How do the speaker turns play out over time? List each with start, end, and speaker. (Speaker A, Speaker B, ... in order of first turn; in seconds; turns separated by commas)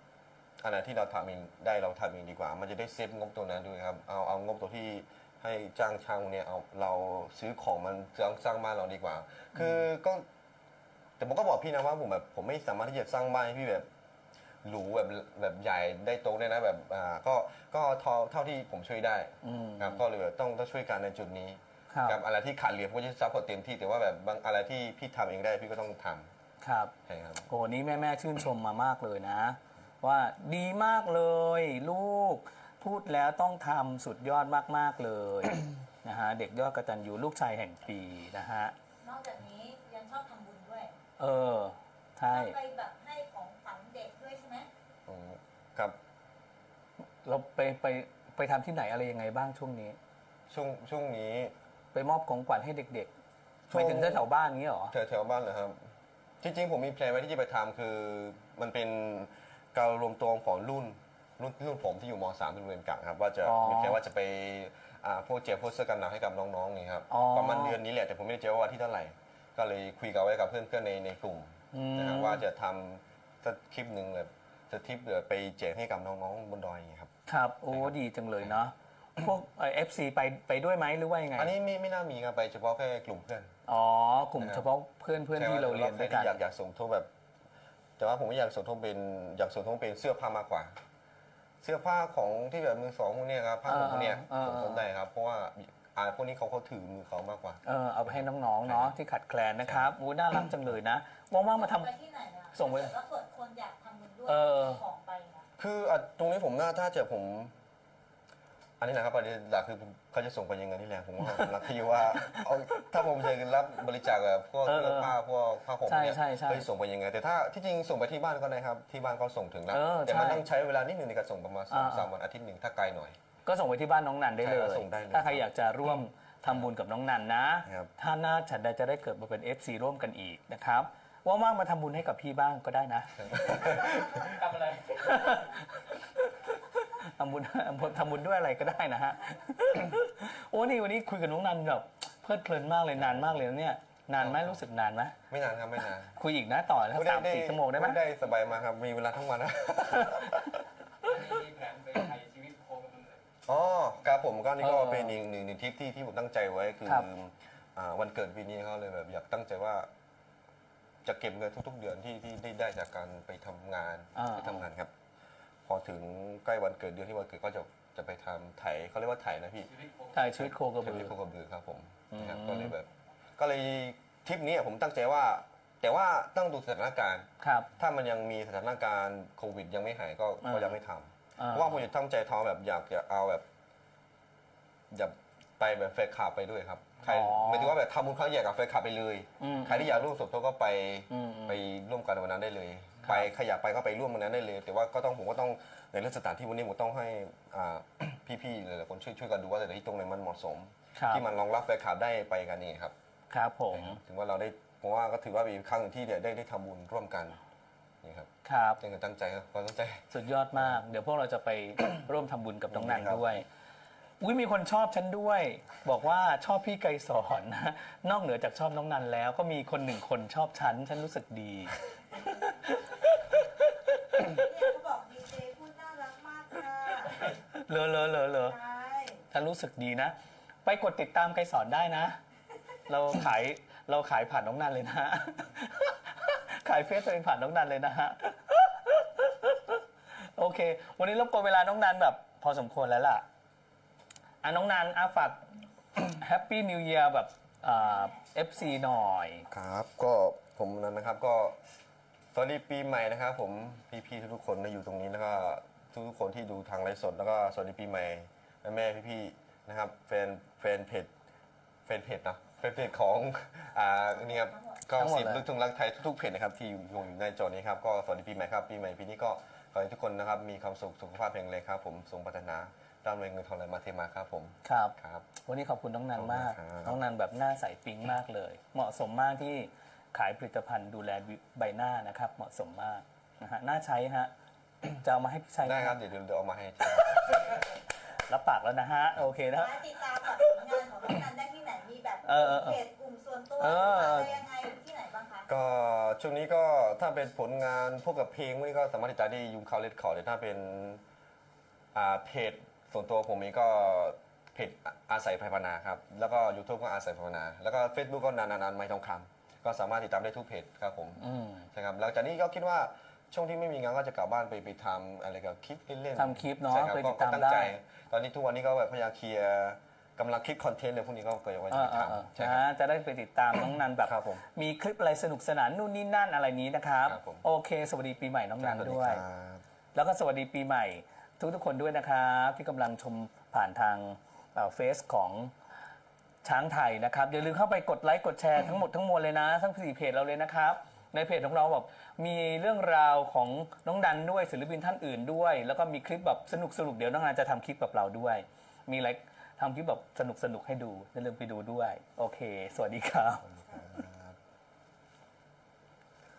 Speaker A: 0.6-10.2, Speaker A: 11.2-13.9, Speaker A: 14.6-26.3, Speaker B: 19.4-20.0, Speaker B: 21.9-22.2, Speaker B: 26.6-26.9, Speaker A: 27.1-27.4, Speaker B: 27.5-38.7, Speaker C: 39.0-40.9, Speaker B: 41.2-42.5, Speaker C: 42.3-44.7, Speaker A: 45.1-46.0, Speaker B: 47.2-50.0, Speaker A: 50.5-51.5, Speaker B: 51.9-53.1, Speaker A: 53.7-54.3, Speaker B: 53.7-54.9, Speaker A: 54.9-55.9, Speaker A: 56.4-77.1, Speaker B: 63.4-64.0, Speaker B: 67.1-67.8, Speaker B: 71.7-72.4, Speaker B: 77.3-81.5, Speaker A: 81.3-83.5, Speaker B: 83.7-86.3, Speaker A: 84.4-84.7, Speaker A: 85.3-87.1, Speaker A: 88.0-90.7, Speaker A: 91.6-98.9, Speaker B: 93.7-94.8, Speaker B: 97.6-101.9, Speaker A: 99.6-99.9, Speaker C: 101.5-105.5, Speaker B: 102.5-102.9, Speaker B: 104.3-104.8, Speaker A: 105.6-107.5, Speaker A: 108.8-123.2, Speaker B: 111.3-111.5, Speaker B: 114.6-115.2, Speaker B: 115.8-116.7, Speaker B: 119.7-120.4, Speaker B: 121.7-122.1, Speaker B: 123.4-134.0, Speaker A: 124.4-125.4, Speaker A: 133.2-134.1, Speaker D: 134.1-135.1, Speaker B: 134.9-145.2, Speaker A: 144.2-144.6, Speaker A: 145.3-146.1, Speaker B: 146.1-148.0, Speaker A: 146.9-150.6, Speaker B: 150.0-150.3, Speaker D: 151.0-153.2, Speaker A: 153.4-159.9, Speaker B: 154.6-155.1, Speaker A: 161.0-164.9, Speaker B: 164.1-164.6, Speaker A: 165.7-169.7, Speaker D: 169.7-170.4, Speaker B: 170.1-171.1, Speaker A: 170.4-183.4, Speaker B: 172.1-172.7, Speaker B: 177.4-177.7, Speaker B: 180.4-180.8, Speaker B: 181.4-181.8, Speaker A: 184.9-202.9, Speaker B: 187.0-187.8, Speaker B: 189.4-189.9, Speaker B: 191.1-191.6, Speaker B: 200.9-201.2, Speaker B: 203.3-204.0, Speaker A: 203.7-207.4, Speaker A: 208.0-208.3, Speaker B: 208.4-208.8, Speaker A: 208.8-210.8, Speaker B: 210.1-213.4, Speaker A: 212.7-213.4, Speaker B: 214.2-224.5, Speaker C: 224.2-227.3, Speaker B: 227.1-228.5, Speaker C: 228.5-229.2, Speaker B: 229.3-232.2, Speaker B: 232.9-243.2, Speaker B: 244.4-245.4, Speaker B: 246.1-249.5, Speaker C: 247.7-248.2, Speaker A: 249.5-251.6, Speaker A: 252.3-261.1, Speaker A: 261.9-275.3, Speaker C: 264.2-264.8, Speaker B: 265.0-265.4, Speaker B: 274.6-284.3, Speaker A: 276.1-277.0, Speaker B: 284.9-286.0, Speaker A: 285.6-287.4, Speaker B: 286.9-289.8, Speaker C: 289.6-295.5, Speaker B: 292.2-292.8, Speaker B: 293.6-294.3, Speaker A: 293.7-294.4, Speaker A: 295.5-301.0, Speaker A: 301.9-322.6, Speaker B: 311.2-311.7, Speaker B: 316.1-317.7, Speaker B: 321.7-329.2, Speaker A: 324.0-324.4, Speaker A: 327.0-327.4, Speaker A: 328.6-329.6, Speaker B: 329.9-335.5, Speaker B: 336.4-353.4, Speaker A: 353.4-354.4